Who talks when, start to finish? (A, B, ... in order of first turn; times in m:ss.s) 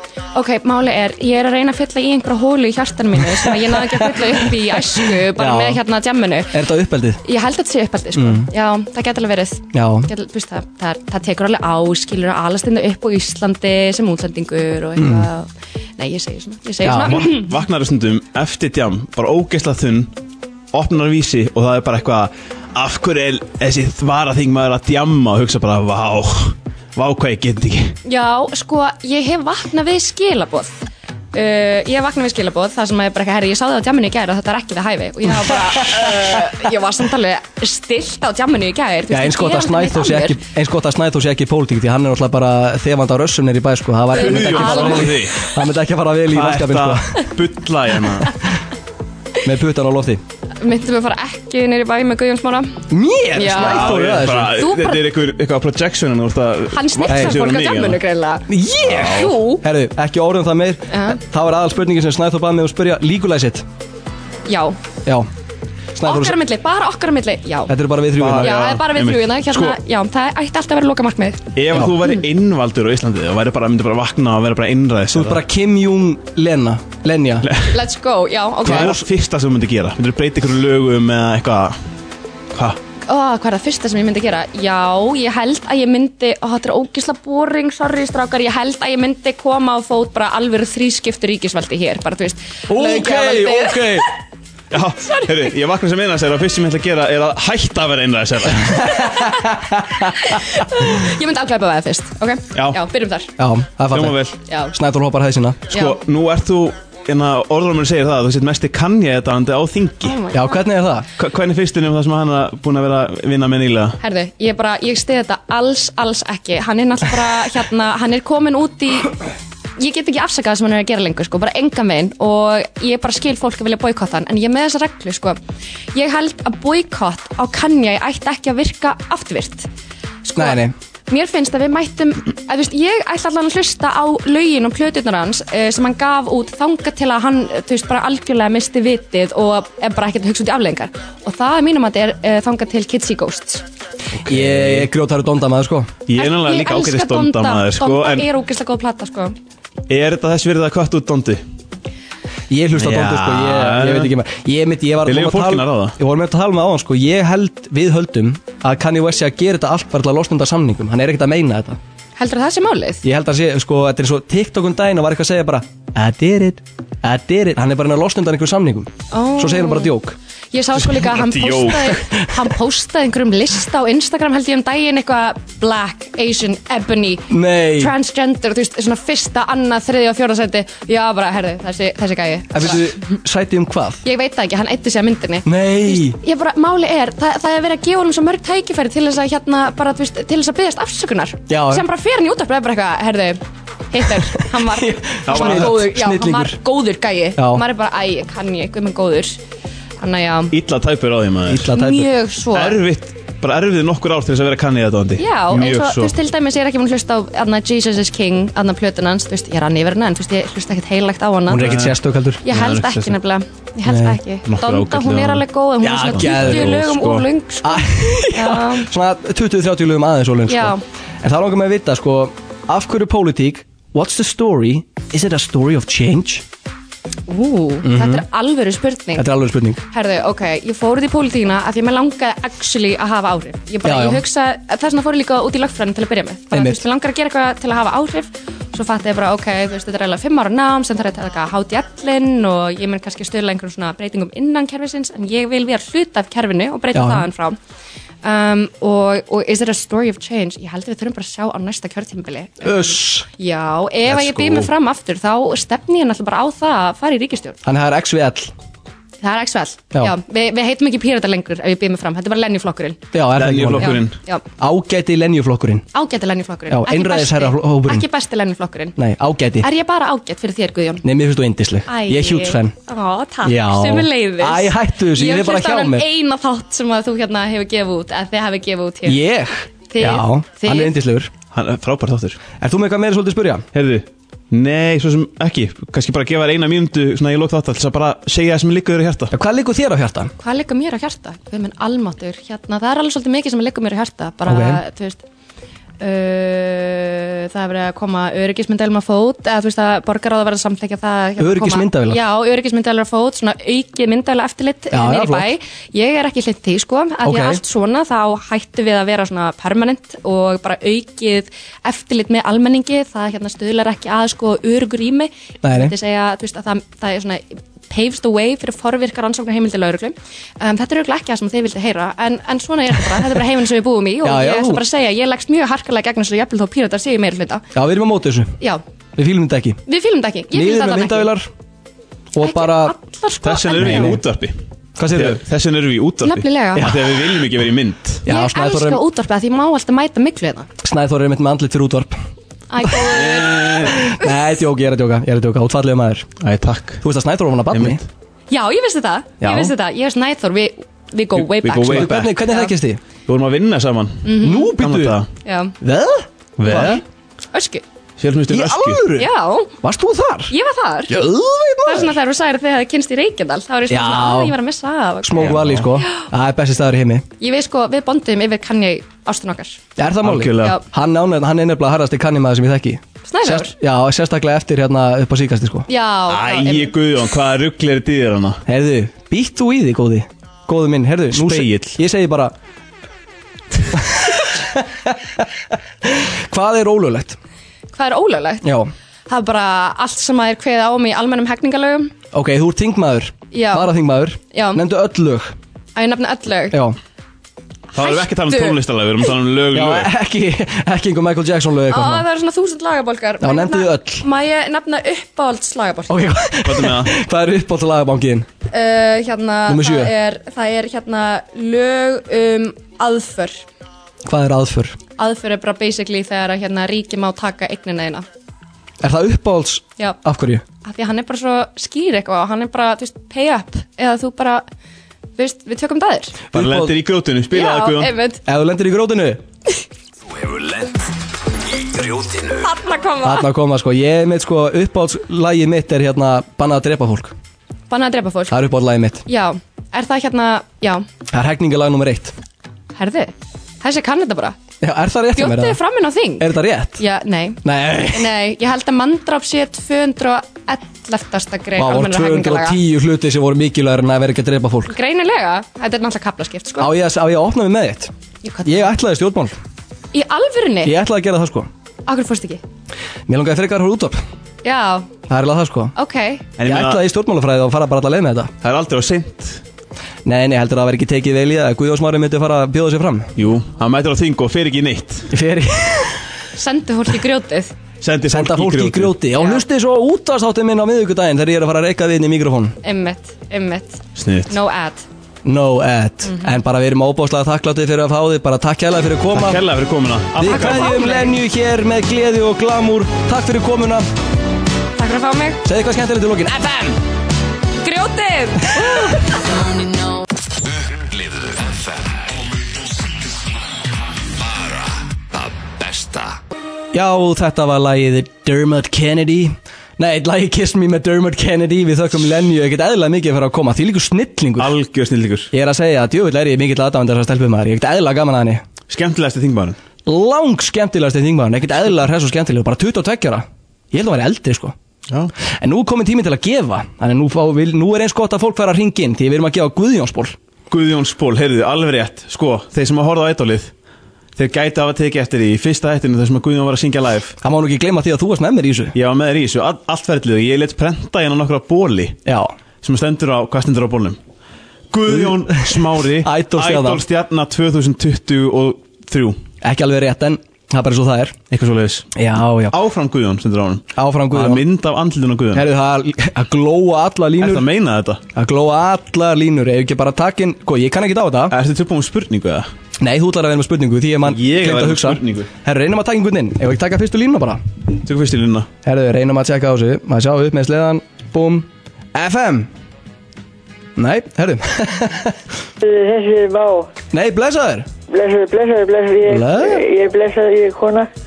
0:00.3-0:06.5 A
0:03.6-0:05.8 B
0:06.5-0:07.2 B
0:07.2-0:17.5 A
0:08.1-0:08.5 B
0:09.7-0:10.1 B
0:15.0-0:15.3 B
0:16.8-0:17.3 B
0:17.0-0:20.1 C
0:20.7-0:28.0 C
0:28.0-0:30.8 A
0:31.3-0:40.4 A
0:39.1-0:47.2 B
0:44.1-0:45.3 A
0:44.1-0:45.4 C
0:46.3-0:48.3 C
0:49.4-0:50.2 B
0:50.6-0:52.8 A
0:52.9-0:54.5 B
0:53.3-0:55.0 A
0:53.6-0:58.0 C
0:56.7-0:59.6 A
0:57.1-0:57.4 B
0:58.5-1:03.6 B
0:58.8-0:59.3 C
1:00.9-1:01.2 A
1:04.5-1:04.8 A
1:06.0-1:06.4 B
1:06.0-1:07.7 A
1:07.7-1:08.6 B
1:08.2-1:09.8 C
1:08.4-1:12.2 A
1:11.6-1:15.4 C
1:15.1-1:17.5 B
1:17.4-1:17.8 C
1:17.7-1:19.0 A
1:18.6-1:19.0 B
1:18.6-1:21.8 C
1:22.5-1:22.8 C
1:23.0-1:34.1 A
1:32.7-1:34.1 B
1:34.7-1:38.9 C
1:35.0-1:35.5 A
1:38.6-1:40.3 B
1:40.2-1:43.3 A
1:42.5-1:42.8 C
1:43.4-1:44.2 B
1:43.9-1:44.4 C
1:44.4-1:44.7 A
1:44.7-1:45.7 B
1:45.7-1:50.2 C
1:45.7-1:46.0 A
1:50.0-1:50.6 A
1:50.3-1:51.0 B
1:51.2-1:54.0 C
1:54.0-1:59.2 A
1:59.8-2:05.4 A
2:05.9-2:09.7 A
2:10.2-2:23.6 A
2:10.4-2:10.7 B
2:24.2-2:24.9 C
2:24.2-2:25.9 B
2:26.1-2:28.3 C
2:26.1-2:29.4 A
2:29.9-2:31.4 C
2:32.5-2:41.8 B
2:32.8-2:34.1 C
2:35.0-2:36.0 C
2:42.2-2:43.0 A
2:43.0-2:50.1 B
2:49.1-2:50.0 A
2:50.5-3:03.0 A
2:50.8-2:52.0 C
2:57.3-2:57.9 B
3:02.5-3:04.0 B
3:04.0-3:19.4 A
3:05.4-3:06.2 B
3:11.5-3:11.8 B
3:14.3-3:16.6 B
3:15.3-3:15.8 C
3:17.4-3:17.6 B
3:20.0-3:20.5 A
3:20.5-3:21.7 C
3:21.5-3:22.1 B
3:21.7-3:22.8 A
3:22.5-3:26.1 C
3:25.2-3:31.8 A
3:31.5-3:32.4 B
3:31.5-3:33.2 C
3:32.4-3:38.9 A
3:33.8-3:34.2 B
3:34.4-3:37.3 C
3:35.8-3:36.8 B
3:37.6-3:46.4 B
3:40.5-3:40.8 A
3:47.3-3:49.3 A
3:47.8-3:48.2 B
3:49.2-3:49.8 B
3:49.9-4:07.6 A
3:53.8-3:54.2 B
3:56.5-3:56.8 B
4:06.9-4:07.3 B
4:08.2-4:17.6 A
4:12.6-4:13.3 B
4:14.0-4:14.7 C
4:17.6-4:18.5 B
4:19.2-4:23.1 A
4:23.1-4:24.0 B
4:23.4-4:24.2 C
4:23.8-4:24.4 A
4:24.6-4:25.9 B
4:25.9-4:28.9 A
4:26.7-4:28.0 B
4:29.0-4:29.7 B
4:29.6-4:31.0 A
4:31.0-4:32.7 B
4:31.8-4:39.2 A
4:33.4-4:36.0 B
4:39.0-4:41.3 B
4:39.9-4:41.0 A
4:41.5-4:42.4 C
4:42.6-4:43.6 B
4:43.7-4:49.3 C
4:49.3-4:50.3 B
4:50.4-4:55.2 A
4:54.4-4:54.8 B
4:56.0-5:27.7 A
5:01.4-5:02.2 B
5:04.9-5:05.5 B
5:07.2-5:07.6 B
5:15.6-5:15.9 B
5:24.2-5:24.8 B
5:27.7-5:28.6 B
5:29.2-5:29.8 B
5:29.9-5:31.3 A
5:30.5-5:31.5 B
5:32.3-5:32.9 B
5:32.4-5:34.1 A
5:33.4-5:38.2 C
5:33.8-5:34.2 B
5:35.0-5:35.4 B
5:36.2-5:36.9 A
5:36.7-5:37.1 B
5:38.2-5:40.7 A
5:38.2-5:39.0 B
5:40.8-5:42.2 B
5:42.7-5:44.5 A
5:42.9-5:46.3 B
5:43.2-5:43.9 C
5:46.4-5:47.0 C
5:47.0-5:48.0 B
5:47.7-5:48.0 C
5:48.5-5:52.7 A
5:49.4-5:49.7 B
5:51.4-5:52.3 C
5:51.9-5:53.0 B
5:53.3-5:55.3 C
5:54.2-5:54.7 A
5:54.4-5:55.2 B
5:55.4-5:55.7 A
5:55.8-5:57.0 B
5:56.6-5:57.0 C
5:56.7-5:57.0 A
5:57.5-5:57.8 A
5:58.2-5:59.0 C
5:58.5-5:59.3 B
5:59.1-5:59.7 A
5:59.8-6:00.5 B
6:00.5-6:01.2 A
6:01.1-6:02.1 B
6:01.8-6:06.3 A
6:03.9-6:04.6 B
6:05.2-6:07.2 B
6:05.4-6:05.9 C
6:07.4-6:09.8 A
6:10.0-6:15.9 B
6:10.2-6:10.8 C
6:10.5-6:10.8 A
6:13.2-6:13.7 A
6:15.9-6:16.9 A
6:16.3-6:18.6 C
6:18.7-6:22.5 B
6:21.3-6:22.0 C
6:23.9-6:25.4 B
6:26.2-6:27.4 B
6:27.9-6:28.6 A
6:28.6-6:28.9 B
6:29.3-6:32.1 A
6:32.3-6:35.5 B
6:33.5-6:34.8 A
6:36.0-6:36.8 A
6:37.9-6:38.8 A
6:37.9-6:40.1 C
6:39.7-6:42.2 B
6:41.9-6:46.3 A
6:43.4-6:44.2 B
6:46.1-6:48.5 B
6:46.6-6:47.1 C
6:48.7-6:53.6 A
6:49.7-6:50.1 B
6:54.2-6:55.0 B
6:55.2-6:58.2 A
6:59.0-7:00.6 B
7:00.8-7:04.6 A
7:05.4-7:06.4 A
7:06.5-7:06.9 B
7:06.5-7:08.1 C
7:07.5-7:08.4 A
7:08.4-7:09.4 B
7:10.2-7:12.7 D
7:12.6-7:13.5 A
7:13.2-7:17.3 B
7:17.9-7:18.7 A
7:18.5-7:19.2 B
7:19.2-7:21.0 A
7:21.3-7:22.3 B
7:22.9-7:24.6 A
7:24.8-7:25.8 B
7:25.3-7:32.8 A
7:26.4-7:27.0 B
7:27.6-7:28.3 B
7:31.8-7:34.9 B
7:34.9-7:36.9 A
7:36.8-7:38.1 B
7:38.4-7:38.9 A
7:38.6-7:39.6 B
7:40.1-7:40.9 A
7:40.8-7:41.7 B
7:42.0-7:42.6 A
7:43.3-7:44.2 B
7:44.6-7:45.1 A
7:45.3-7:45.9 B
7:46.0-7:46.5 A
7:46.6-7:47.0 C
7:46.6-7:48.5 B
7:48.6-7:49.6 C
7:50.2-7:53.3 B
7:53.4-7:55.3 C
7:55.3-7:56.2 B
7:56.6-7:57.7 A
7:58.0-7:59.2 C
7:58.3-8:02.8 B
7:59.3-7:59.6 A
8:02.8-8:05.0 A
8:04.2-8:04.5 C
8:05.4-8:09.6 B
8:06.2-8:06.6 A
8:09.3-8:11.0 C
8:10.4-8:14.0 B
8:10.5-8:11.4 A
8:15.0-8:15.6 A
8:15.6-8:17.0 B
8:17.8-8:19.4 A
8:18.7-8:19.2 B
8:20.6-8:22.5 D
8:24.4-8:26.4 D
8:26.9-8:34.7 B
8:34.6-8:35.5 C
8:35.5-8:38.6 B
8:38.9-8:39.8 C
8:40.0-8:44.7 B
8:45.6-8:50.3 B
8:50.7-8:53.7 C
8:54.4-8:57.3 C
8:57.4-8:58.9 B
8:58.9-9:02.2 C
9:02.2-9:02.5 B
9:02.8-9:04.2 C
9:04.9-9:09.4 C
9:05.1-9:07.0 B
9:09.6-9:11.4 B
9:11.5-9:12.1 C
9:12.1-9:12.7 B
9:12.7-9:15.7 C
9:14.0-9:14.6 B
9:15.5-9:17.7 B
9:17.4-9:18.2 C
9:18.3-9:21.5 B
9:21.5-9:22.7 C
9:23.0-9:27.6 B
9:24.2-9:25.5 C
9:28.0-9:28.7 C
9:28.8-9:32.7 B
9:34.0-9:35.4 B
9:35.8-9:36.9 E
9:37.1-9:37.9 B
9:38.1-9:41.1 E
9:39.2-9:39.8 B